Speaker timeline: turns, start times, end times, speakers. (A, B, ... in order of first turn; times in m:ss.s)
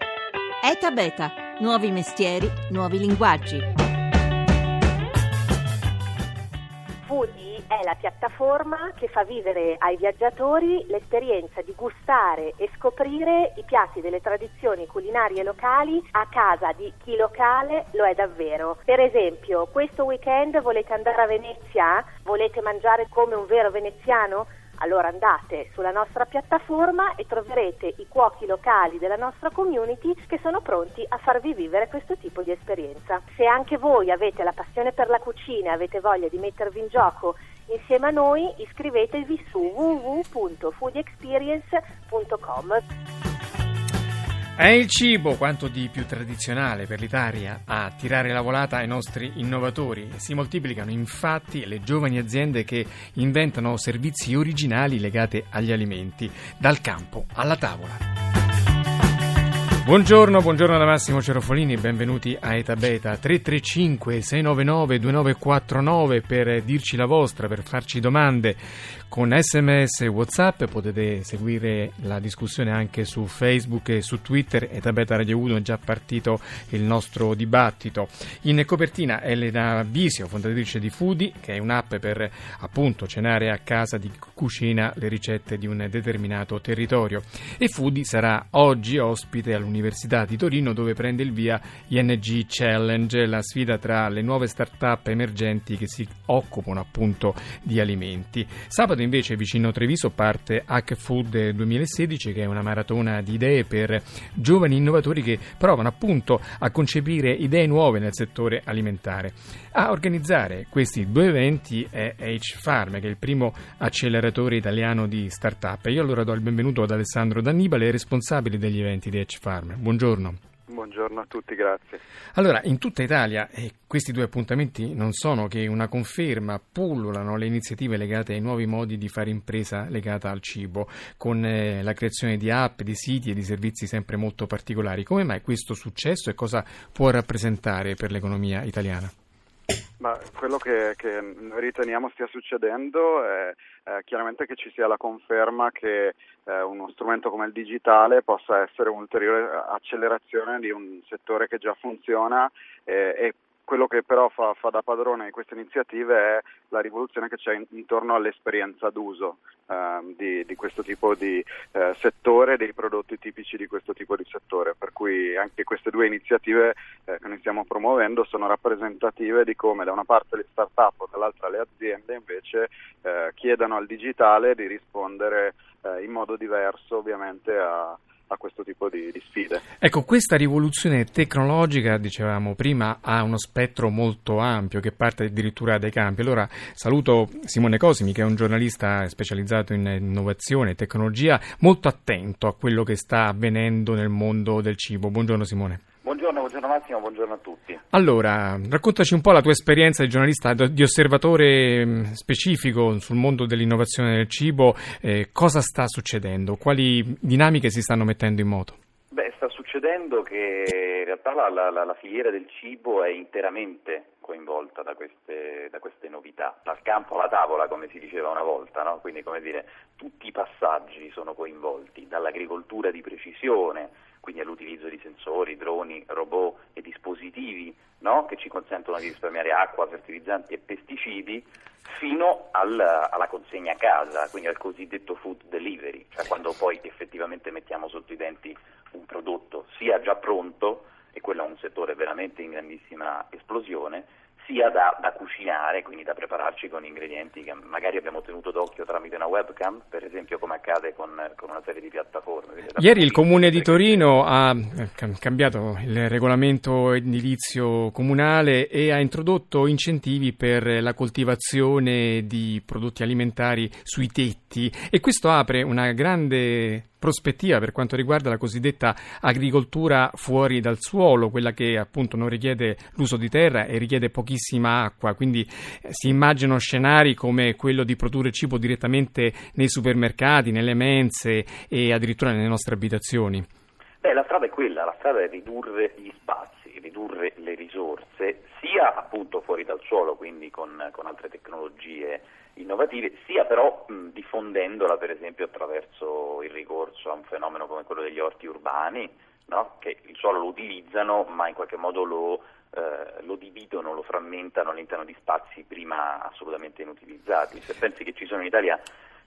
0:00.6-0:03.6 A
0:07.1-0:42.8 B
0:44.6-0:58.0 C
0:59.8-2:00.4 C
2:00.7-2:02.0 D
2:02.3-2:19.1 C
2:20.0-2:59.6 D
2:59.8-3:15.8 C
3:16.0-3:17.8 E
3:17.9-3:28.8 C
3:29.1-4:14.1 E
4:12.8-4:43.4 C
4:44.0-5:08.8 E